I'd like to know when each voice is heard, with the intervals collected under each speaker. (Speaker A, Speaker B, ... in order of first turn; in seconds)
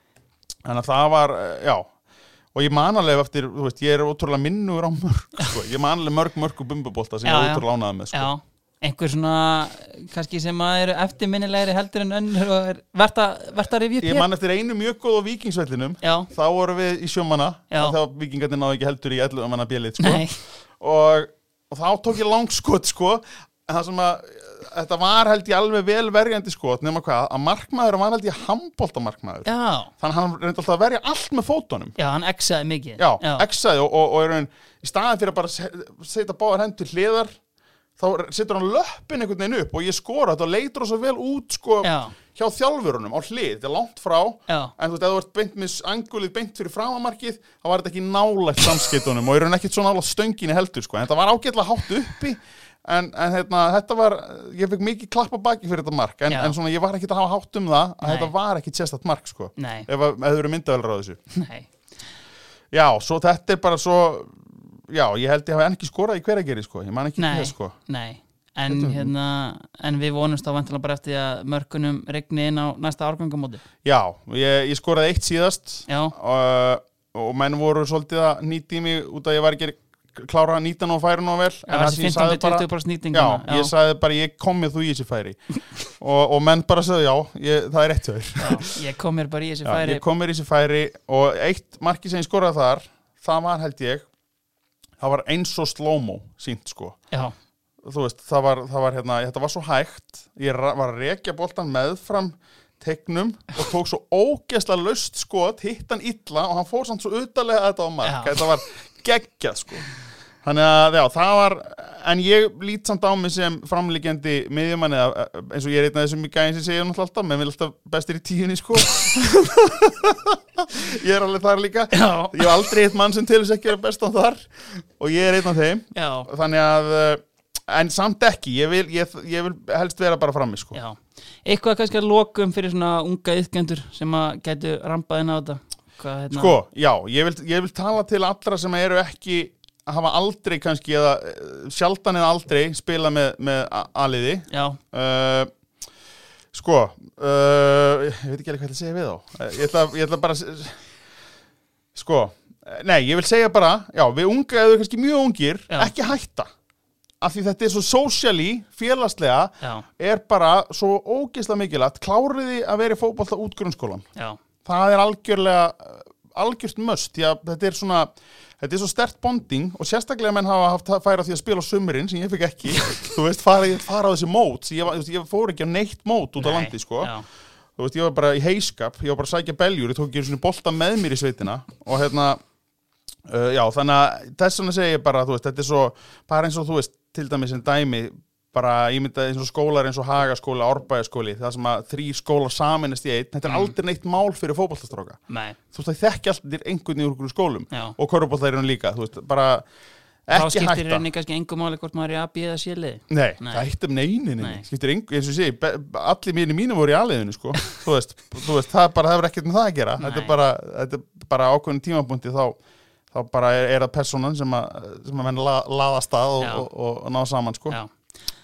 Speaker A: 0.6-1.9, 2.5-8.3, 14.0-20.3, 20.8-31.9, 33.0-37.4, 38.0-61.2, 62.7-67.8, 68.7-69.1, 73.8-85.4, 86.0-88.8, 89.6-94.0, 95.0-97.0, 97.8-109.8, 110.4-130.8, 136.3-145.5, 146.5-150.8, 151.9-156.5, 157.2-164.0, 164.6-177.1, 177.8-182.4, 183.2-195.2, 195.7-199.6, 200.3-201.1, 203.1-212.6, 213.1-217.8
Speaker B: 7.2-14.2, 16.0-16.3, 17.7-18.0, 20.0-20.4, 29.4-29.9, 32.0-33.5, 41.8-42.1, 44.5-44.7, 56.3-56.5, 58.0-58.3, 59.6-59.9, 61.3-61.7, 67.2-73.6, 75.9-76.1, 81.7-83.7, 88.4-90.0, 108.0-108.4, 121.9-122.5, 125.9-126.3, 130.7-136.6, 144.5-144.8, 159.6-159.8, 172.8-173.1, 176.4-177.2, 193.4-193.7, 195.3-195.6, 200.3-203.7, 204.4-204.6, 210.0-210.3, 216.4-216.7